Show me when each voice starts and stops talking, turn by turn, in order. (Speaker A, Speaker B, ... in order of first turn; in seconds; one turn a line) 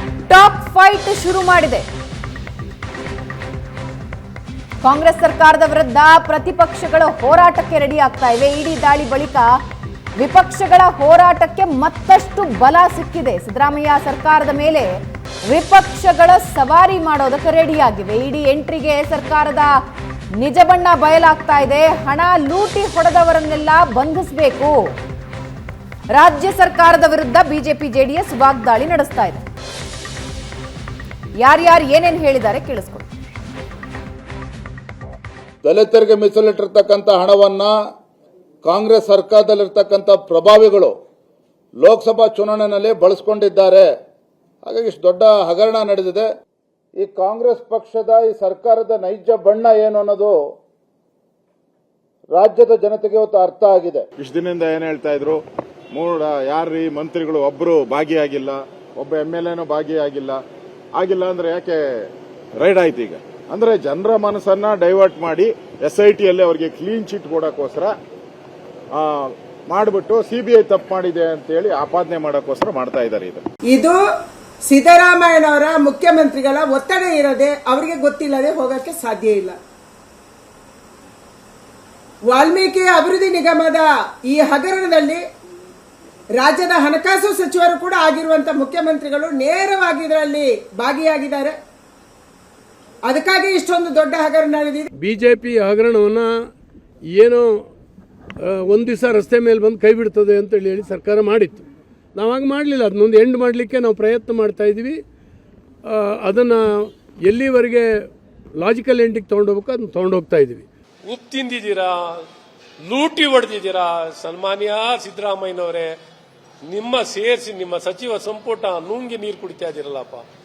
Speaker A: 0.3-1.9
Speaker A: 4.8-9.5
Speaker A: 10.2-14.9
Speaker A: 15.4-19.8
Speaker A: 20.4-24.7
Speaker A: 26.1-29.4
Speaker A: 31.4-33.1
Speaker B: 35.6-37.7
Speaker B: 38.6-41.0
Speaker B: 41.8-43.9
Speaker B: 44.6-46.3
Speaker B: 47.0-50.4
Speaker B: 52.3-54.0
Speaker C: 54.2-55.4
Speaker C: 55.9-60.4
Speaker C: 61.0-61.8
Speaker C: 62.5-67.9
Speaker C: 69.0-73.4
Speaker D: 73.7-74.0
Speaker D: 74.7-79.6
Speaker D: 82.3-85.2
Speaker D: 86.4-91.6
Speaker D: 93.0-94.9
Speaker E: 95.0-96.5
Speaker E: 97.1-97.6
Speaker E: 98.5-105.0
Speaker E: 105.9-107.9
Speaker E: 108.6-110.6
Speaker F: 111.0-112.2
Speaker F: 112.9-115.9
Speaker F: 116.7-120.2